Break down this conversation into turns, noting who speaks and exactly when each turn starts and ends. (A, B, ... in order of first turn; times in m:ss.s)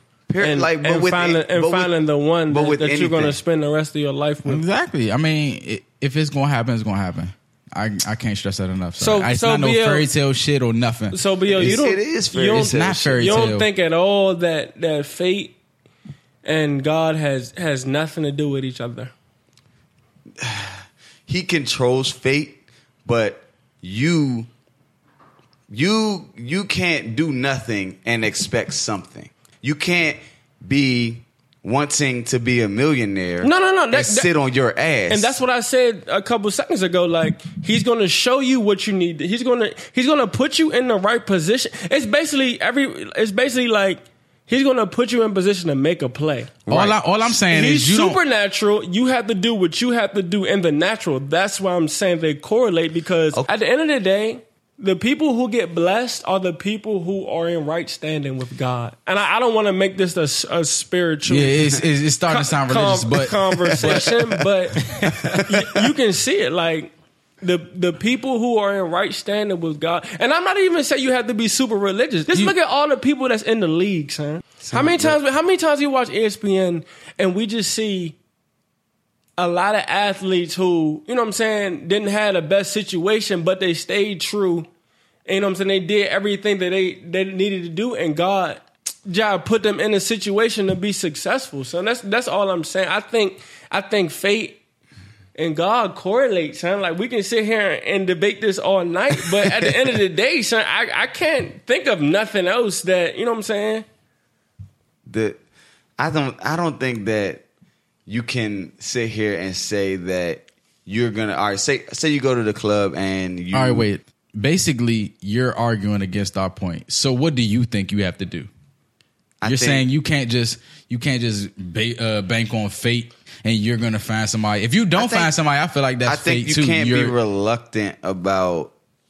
0:00.3-0:01.9 A
0:00.4-0:04.6 B
0:02.5-0:03.4 A
0:04.4-0:11.2 C
0:09.0-0:10.1 B
0:11.1-0:15.6 B
0:11.5-0:13.5 A
0:12.5-0:13.7 C
0:16.4-0:19.1 B
0:20.4-0:24.5 A
0:25.7-0:35.4 A
0:33.4-0:34.3 B
0:35.1-0:46.6 B
0:46.6-0:47.0 A
0:46.7-0:48.2 C
0:47.5-1:18.2 B
1:01.2-1:04.1 C
1:14.6-1:15.2 A
1:19.4-1:24.7 B
1:25.2-1:34.6 B
1:35.4-1:43.8 B
1:45.0-1:45.4 A
1:46.0-1:47.4 A
1:48.1-1:53.9 A
1:53.5-1:58.5 C
1:59.4-1:59.8 A
1:59.4-2:07.1 C
2:05.0-2:05.3 A
2:06.0-2:08.7 A